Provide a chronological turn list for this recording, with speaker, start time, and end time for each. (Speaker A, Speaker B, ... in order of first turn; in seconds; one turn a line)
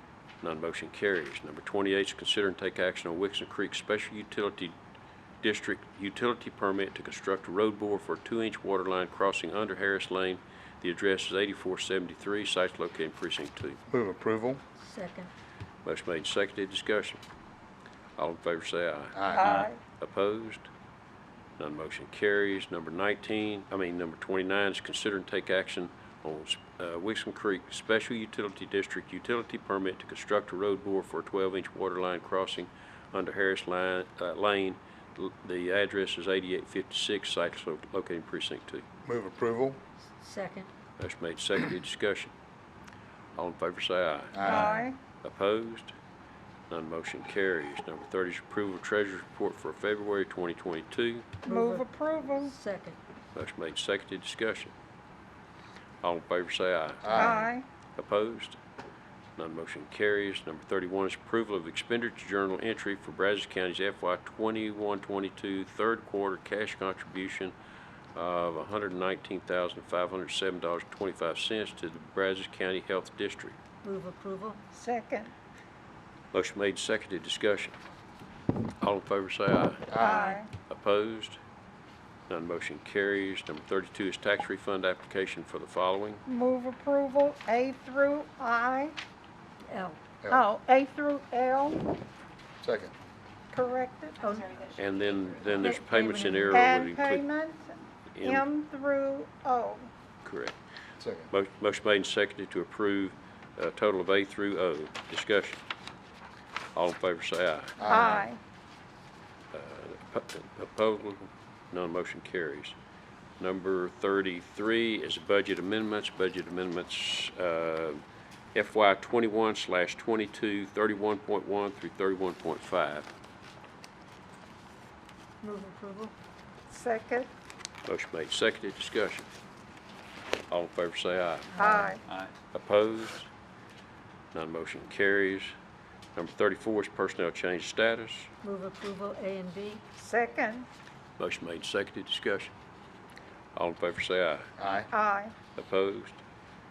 Speaker A: 0.4-4.7
Speaker A: 5.4-13.8
Speaker B: 13.9-14.6
Speaker C: 14.8-15.3
Speaker A: 15.8-17.2
Speaker A: 18.2-20.7
Speaker B: 19.1-19.5
Speaker D: 19.3-19.8
Speaker A: 21.6-38.9
Speaker B: 39.0-39.8
Speaker C: 40.2-40.7
Speaker A: 41.0-42.3
Speaker A: 43.4-45.9
Speaker B: 44.3-44.7
Speaker D: 44.4-45.0
Speaker A: 46.7-51.4
Speaker C: 51.4-53.0
Speaker D: 51.4-52.5
Speaker A: 53.3-54.7
Speaker A: 56.0-58.6
Speaker B: 57.0-57.4
Speaker D: 57.1-57.6
Speaker A: 59.4-67.5
Speaker A: 68.1-73.6
Speaker C: 73.8-74.6
Speaker D: 74.7-75.3
Speaker A: 76.3-77.8
Speaker A: 78.8-80.0
Speaker B: 79.9-80.3
Speaker D: 80.0-80.5
Speaker A: 80.6-81.4
Speaker A: 82.3-86.2
Speaker D: 86.2-88.9
Speaker C: 89.7-90.0
Speaker D: 90.3-92.0
Speaker B: 92.6-92.9
Speaker D: 93.5-94.4
Speaker C: 94.2-94.5
Speaker A: 94.7-97.2
Speaker C: 95.5-96.7
Speaker D: 96.5-99.9
Speaker A: 98.1-98.5
Speaker A: 100.2-100.6
Speaker B: 101.0-101.3
Speaker A: 101.3-105.6
Speaker A: 106.7-108.3
Speaker B: 107.8-108.2
Speaker D: 107.8-108.4
Speaker A: 109.5-112.7
Speaker A: 113.4-118.0
Speaker A: 118.5-123.1
Speaker C: 125.4-126.1
Speaker D: 126.7-127.3
Speaker A: 127.8-129.3
Speaker A: 130.5-132.0
Speaker D: 131.5-132.0
Speaker A: 132.5-133.3
Speaker A: 134.3-135.5
Speaker A: 136.1-138.3
Speaker C: 138.4-139.8
Speaker D: 140.0-140.7
Speaker A: 141.2-142.5
Speaker A: 143.5-144.9
Speaker B: 144.6-144.9
Speaker D: 144.9-145.3
Speaker A: 145.5-146.2